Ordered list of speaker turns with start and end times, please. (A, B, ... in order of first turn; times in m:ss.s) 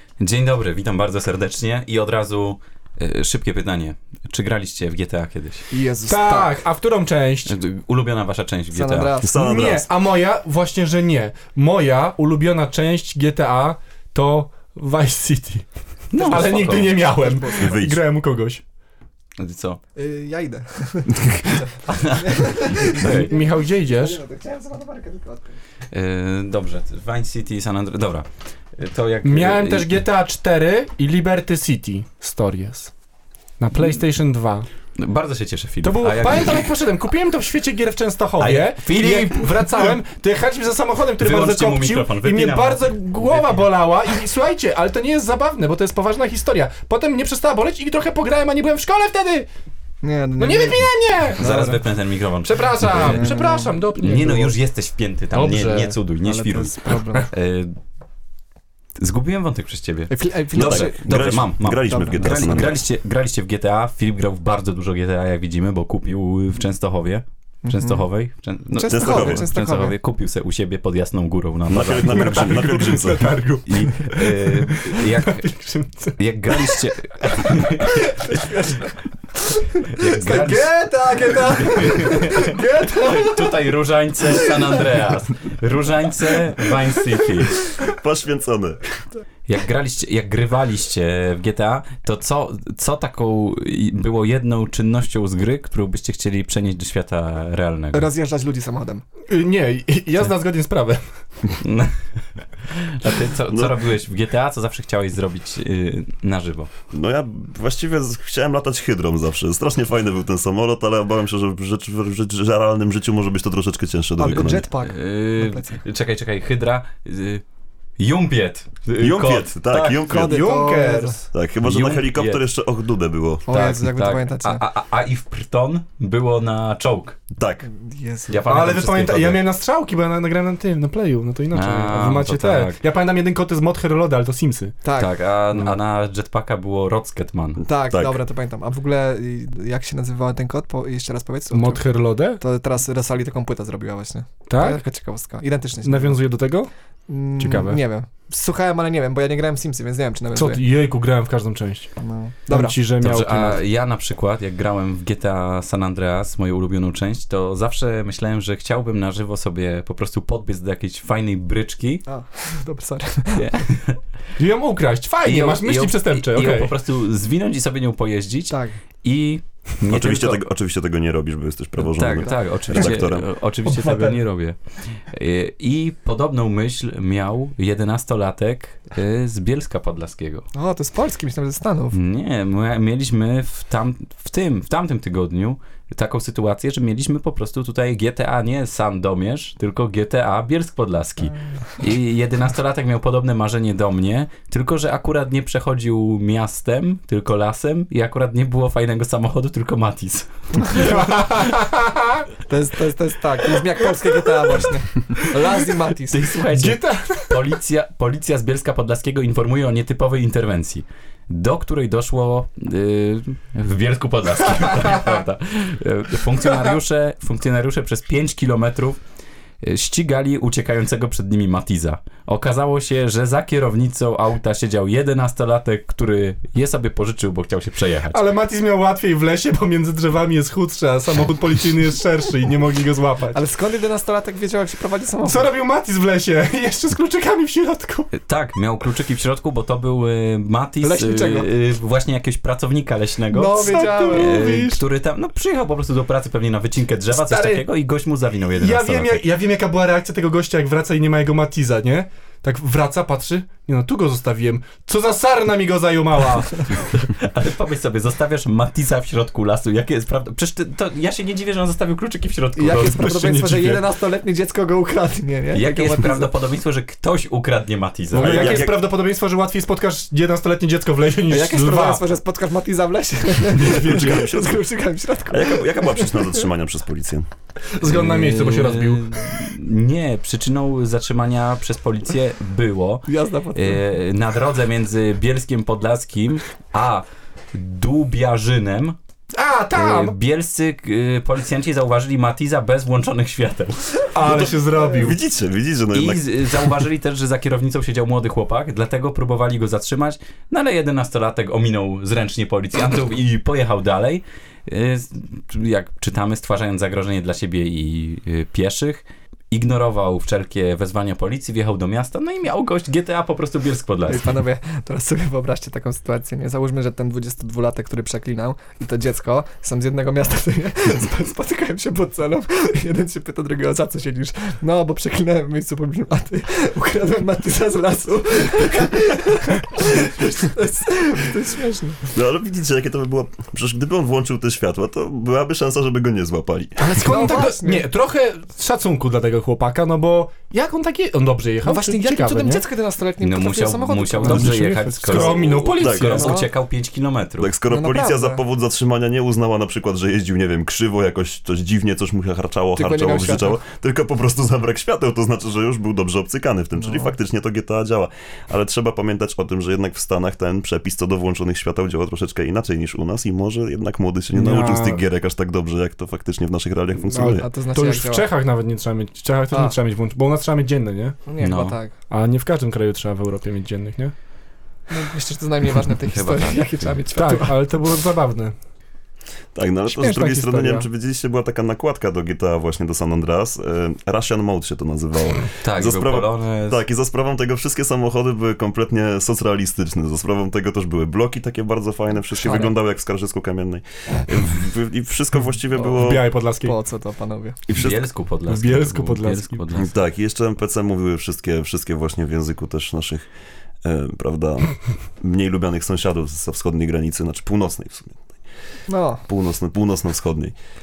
0:00.2-0:05.7 A
0:05.7-0:06.6 B
0:06.1-0:07.6 C
0:07.4-0:09.1 A
0:08.7-0:09.8 B
0:09.2-0:09.8 D
0:09.4-0:15.6 C
0:16.1-0:17.0 A
0:16.2-0:17.8 B
0:16.2-0:18.6 C
0:17.6-0:18.0 D
0:19.4-0:19.8 A
0:19.9-0:25.6 B
0:21.9-0:22.2 A
0:22.8-0:23.3 A
0:22.9-0:24.2 C
0:25.9-0:30.0 A
0:29.2-0:32.9 C
0:33.6-0:34.7 C
0:35.0-0:36.7 A
0:35.8-0:49.4 C
0:38.4-0:40.0 A
0:41.2-0:43.7 A
0:50.0-0:50.9 B
0:50.4-0:51.8 C
0:51.4-0:57.8 A
0:52.4-0:54.6 C
0:52.9-0:53.8 B
0:55.3-0:56.0 C
0:56.2-0:57.3 B
0:59.0-1:12.7 A
1:00.1-1:02.6 B
1:00.5-1:02.8 D
1:07.6-1:08.0 B
1:08.7-1:09.9 B
1:08.8-1:09.5 D
1:11.7-1:13.4 D
1:12.0-1:16.9 C
1:13.6-1:15.5 A
1:16.2-1:17.8 A
1:18.3-1:18.8 B
1:19.9-1:27.6 A
1:20.0-1:23.7 B
1:24.4-1:25.0 B
1:27.8-1:28.8 D
1:29.5-1:38.1 A
1:37.9-1:39.0 B
1:39.3-1:41.0 C
1:41.6-1:42.0 A
1:42.7-1:46.7 A
1:43.5-1:43.8 D
1:46.9-1:54.7 D
1:54.2-1:55.8 B
1:54.3-1:57.4 A
1:58.0-1:59.6 A
1:59.0-2:00.4 D
1:59.7-2:01.2 C
1:59.9-2:01.2 B
2:01.3-2:03.5 D
2:01.6-2:02.4 A
2:03.4-2:04.6 B
2:03.5-2:07.2 A
2:07.3-2:07.7 D
2:07.6-2:08.5 B
2:08.3-2:09.4 A
2:08.4-2:14.7 C
2:11.5-2:12.8 A
2:14.8-2:15.1 B
2:15.0-2:17.6 A
2:17.6-2:21.8 B
2:17.9-2:18.2 D
2:21.5-2:22.4 C
2:22.4-2:26.2 B
2:24.5-2:24.8 C
2:25.8-2:26.7 C
2:27.1-2:30.6 B
2:27.4-2:27.8 C
2:30.3-2:31.9 C
2:32.0-2:32.8 B
2:32.5-2:33.6 C
2:33.0-2:42.0 A
2:42.1-2:43.5 B
2:43.3-2:44.0 A
2:44.4-2:46.7 C
2:45.2-2:50.4 A
2:48.5-2:48.8 B
2:49.8-2:53.3 D
2:51.8-3:00.5 A
2:52.2-2:52.8 B
2:53.6-2:54.2 C
3:00.5-3:02.0 B
3:01.9-3:20.9 A
3:20.7-3:22.3 C
3:22.5-3:26.3 B
3:26.1-3:39.0 A
3:26.5-3:27.5 C
3:39.6-3:48.2 A
3:48.1-3:53.4 C
3:53.3-3:55.5 B
3:55.2-3:58.1 C
3:58.1-4:09.2 A
4:00.8-4:01.5 B
4:03.3-4:04.4 B
4:03.5-4:04.8 C
4:07.1-4:07.6 C
4:08.6-4:16.7 C
4:16.9-4:23.1 A
4:22.6-4:26.3 B
4:22.7-4:23.8 C
4:25.5-4:28.6 A
4:28.1-4:32.0 C
4:28.2-4:28.8 D
4:28.3-4:28.6 B
4:31.3-4:36.4 B
4:33.5-4:34.6 C
4:33.9-4:34.2 D
4:35.3-4:37.3 D
4:37.8-4:39.3 C
4:37.8-4:49.0 A
4:43.1-4:43.8 B
4:49.3-4:50.2 C
4:49.7-4:54.1 A
4:54.1-4:55.2 C
4:54.3-4:56.7 D
4:55.9-5:14.4 A
5:14.1-5:32.0 B
5:32.1-5:37.1 D
5:36.8-5:42.6 C
5:36.9-5:37.9 B
5:41.6-5:45.4 B
5:43.2-5:47.5 A
5:44.2-5:46.3 C
5:45.1-5:46.4 D
5:46.1-5:46.5 B
5:47.4-6:07.5 D
5:47.7-5:48.4 B
5:52.8-5:53.6 B
5:56.8-5:57.1 B
6:04.3-6:05.0 C
6:07.1-6:11.2 C
6:07.4-6:08.3 B
6:11.2-6:11.9 B
6:11.4-6:11.8 A
6:12.1-6:14.1 C
6:14.9-6:17.6 B
6:16.1-6:17.0 A
6:17.1-6:18.5 C
6:19.5-6:36.3 D
6:19.9-6:20.8 B
6:25.6-6:26.8 A
6:32.4-6:32.7 B
6:35.8-6:36.0 B
6:36.0-6:36.8 C
6:36.6-6:37.6 B
6:37.7-6:38.0 D
6:37.7-6:39.9 A
6:38.5-6:39.6 C
6:39.7-6:43.2 D
6:43.8-6:48.4 D
6:48.9-6:49.2 B
6:49.3-6:50.5 D